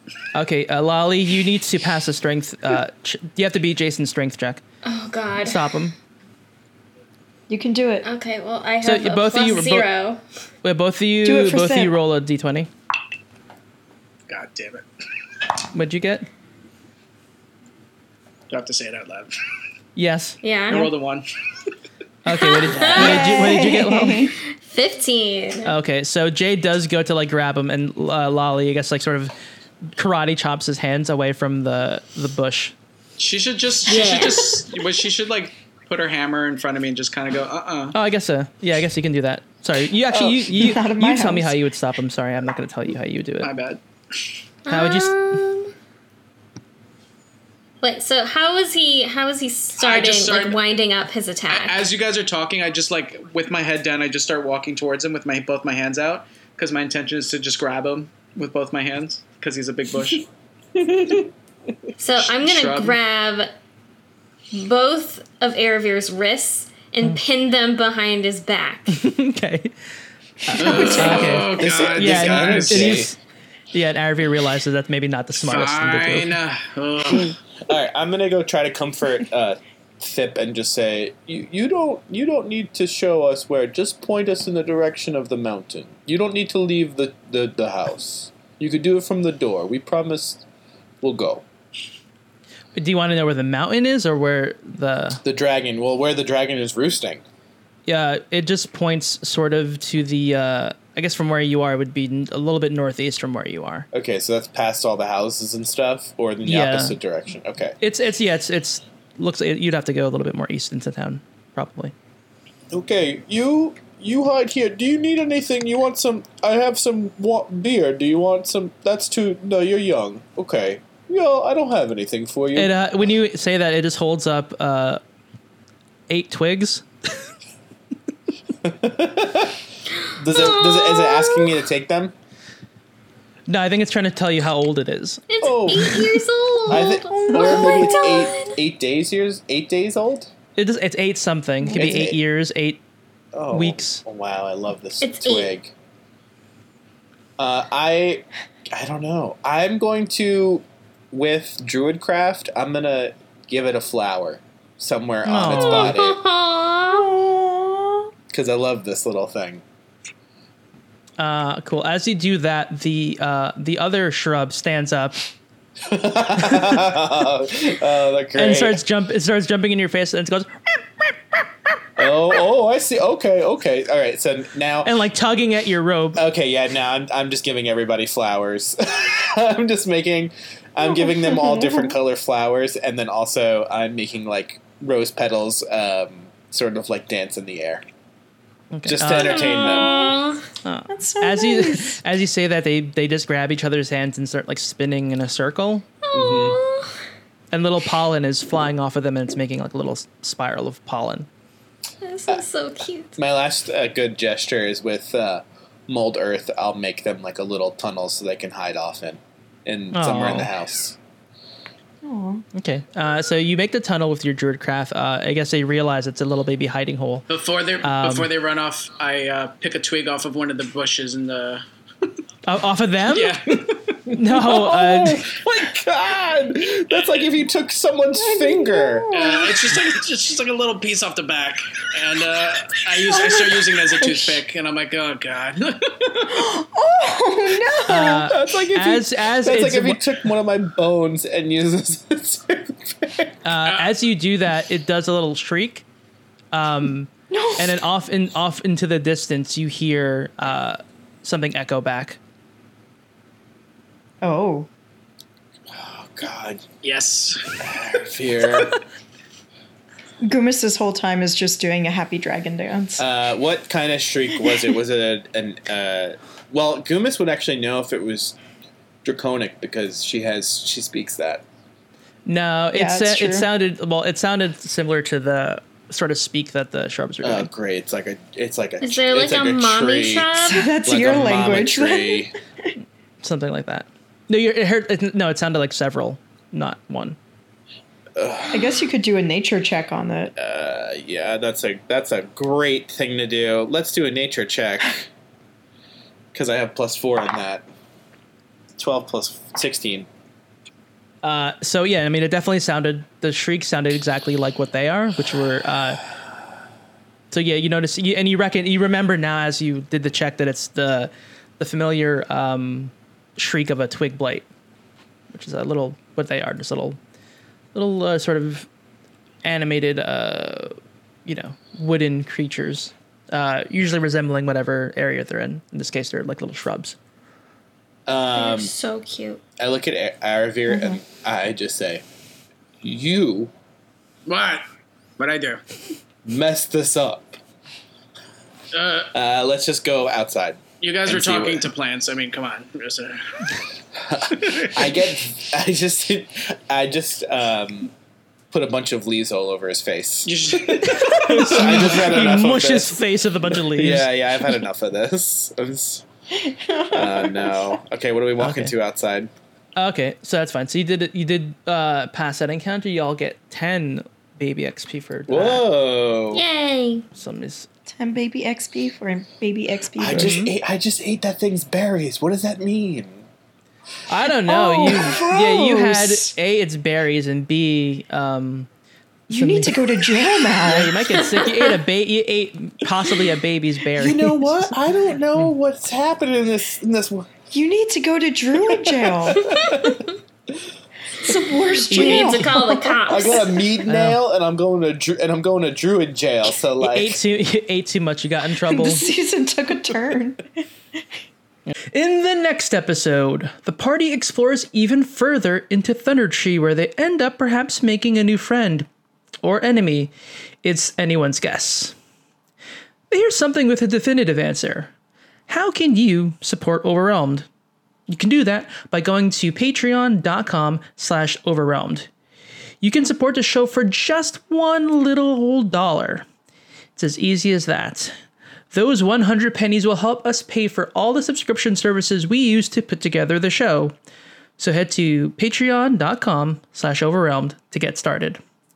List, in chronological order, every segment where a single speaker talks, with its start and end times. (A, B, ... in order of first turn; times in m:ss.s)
0:00.3-0:04.6 A
0:04.8-0:05.9 B
0:05.4-0:05.9 A
0:07.5-0:08.1 C
0:08.0-0:10.2 B
0:08.8-0:09.9 A
0:10.6-0:12.7 A
0:11.2-0:11.9 C
0:14.3-0:14.8 D
0:15.7-0:16.3 A
0:18.5-0:19.4 D
0:19.9-0:20.4 A
0:20.4-0:20.9 B
0:20.7-0:21.3 D
0:22.2-0:24.4 A
0:22.3-0:23.6 B
0:22.9-0:24.3 C
0:24.4-0:25.7 B
0:25.6-0:29.3 A
0:29.9-0:32.7 A
0:33.2-0:38.0 D
0:33.8-0:34.8 B
0:37.9-0:43.5 A
0:40.1-0:41.5 C
0:43.4-0:43.8 D
0:44.6-0:45.7 B
0:44.7-0:45.4 A
0:47.8-0:51.8 B
0:49.8-0:50.6 D
0:51.5-1:00.3 D
1:02.0-1:03.5 B
1:02.2-1:03.0 D
1:04.5-1:09.0 B
1:08.9-1:09.7 A
1:10.4-1:13.2 A
1:10.5-1:11.4 C
1:10.5-1:13.0 D
1:11.0-1:13.1 E
1:13.7-1:16.3 A
1:15.4-1:17.4 D
1:17.0-1:30.4 E
1:31.0-1:31.4 E
1:32.7-1:35.2 A
1:35.2-1:37.2 E
1:37.8-1:43.9 A
1:43.9-1:47.8 E
1:46.4-1:47.0 A
1:47.8-1:51.9 A
1:52.7-2:02.7 E
2:02.5-2:05.0 A
2:06.1-2:06.8 A
2:08.6-2:09.6 E
2:10.1-2:12.1 E
2:10.3-2:11.5 B
2:13.5-2:15.8 A
2:15.3-2:18.6 B
2:15.4-2:20.3 E
2:16.7-2:18.2 C
2:20.6-2:22.8 A
2:21.7-2:22.2 E
2:23.3-2:25.7 E
2:23.5-2:24.0 A
2:25.0-2:25.5 B
2:27.4-2:36.2 E
2:35.2-2:36.0 A
2:35.5-2:37.1 B
2:36.9-2:38.1 C
2:38.3-2:39.6 E
2:41.2-2:45.2 A
2:45.8-2:48.8 E
2:48.4-2:50.7 A
2:52.0-2:54.9 E
2:54.8-2:56.2 A
2:56.1-3:07.8 E
3:00.8-3:01.9 C
3:08.7-3:09.4 A
3:08.8-3:10.0 E
3:09.2-3:10.5 B
3:09.6-3:10.1 C
3:10.6-3:15.8 A
3:10.9-3:12.0 C
3:16.0-3:17.0 B
3:16.1-3:16.6 E
3:17.5-3:21.3 A
3:22.0-3:23.1 B
3:23.2-3:31.0 E
3:29.9-3:30.5 A
3:32.0-3:32.4 C
3:32.5-3:37.2 A
3:37.3-3:41.6 D
3:37.8-3:38.3 A
3:42.4-3:43.4 A
3:43.1-3:44.0 D
3:44.1-3:45.3 A
3:44.1-3:49.1 E
3:48.2-3:49.7 C
3:49.1-3:56.5 D
3:53.0-3:54.3 C
3:56.2-3:58.4 C
3:57.8-4:00.0 A
3:58.0-4:03.4 E
4:03.4-4:05.8 A
4:03.6-4:03.9 D
4:06.5-4:12.2 A
4:07.3-4:07.7 C
4:14.2-4:14.7 C
4:15.7-4:16.6 E
4:16.8-4:17.7 D
4:17.6-4:18.8 E
4:20.2-4:23.0 C
4:23.0-4:28.4 E
4:29.0-4:31.4 E
4:32.2-4:37.5 A
4:32.7-4:33.5 C
4:37.2-4:42.3 E
4:38.8-4:40.7 B
4:40.4-4:42.7 C
4:43.2-4:47.2 A
4:48.2-4:48.9 E
4:48.5-4:50.3 C
4:50.4-4:55.0 E
4:56.3-4:57.6 E
4:58.8-5:00.1 E
5:01.2-5:06.0 A
5:07.3-5:14.4 A
5:15.3-5:17.0 A
5:17.7-5:18.7 A
5:19.4-5:27.0 A
5:28.1-5:28.7 E
5:28.3-5:29.4 B
5:29.6-5:32.0 E
5:30.7-5:31.0 C
5:32.8-5:33.5 E
5:34.2-5:34.6 D
5:35.2-5:35.6 D
5:36.2-5:37.4 E
5:38.7-5:39.1 D
5:39.1-5:41.7 E
5:40.8-5:43.4 D
5:43.9-5:47.9 E
5:44.4-5:44.8 D
5:48.5-5:53.0 E
5:50.2-5:52.1 D
5:50.9-5:54.1 A
5:53.5-5:56.0 E
5:56.4-5:57.7 C
5:56.9-5:59.3 E
5:58.4-5:58.7 A
5:59.8-6:05.6 A
6:05.3-6:06.4 E
6:06.3-6:07.0 B
6:07.1-6:07.7 A
6:07.9-6:10.3 C
6:10.0-6:13.2 E
6:10.1-6:10.5 A
6:14.1-6:18.7 A
6:14.5-6:16.3 C
6:19.3-6:21.0 C
6:19.3-6:24.5 A
6:21.3-6:21.7 B
6:23.9-6:27.3 E
6:27.5-6:29.4 C
6:28.8-6:30.0 E
6:29.5-6:29.9 B
6:31.1-6:33.1 C
6:31.8-6:33.7 B
6:31.9-6:32.5 A
6:33.0-6:37.2 E
6:33.8-6:34.2 A
6:36.8-6:39.0 A
6:38.7-6:40.6 C
6:41.9-6:48.9 A
6:49.4-6:50.1 A
6:50.6-6:51.9 A
6:53.1-6:54.9 A
6:55.5-6:57.5 A
6:58.1-7:02.1 A
7:02.8-7:06.3 A
7:07.0-7:08.1 A
7:08.7-7:13.9 A
7:14.6-7:18.4 A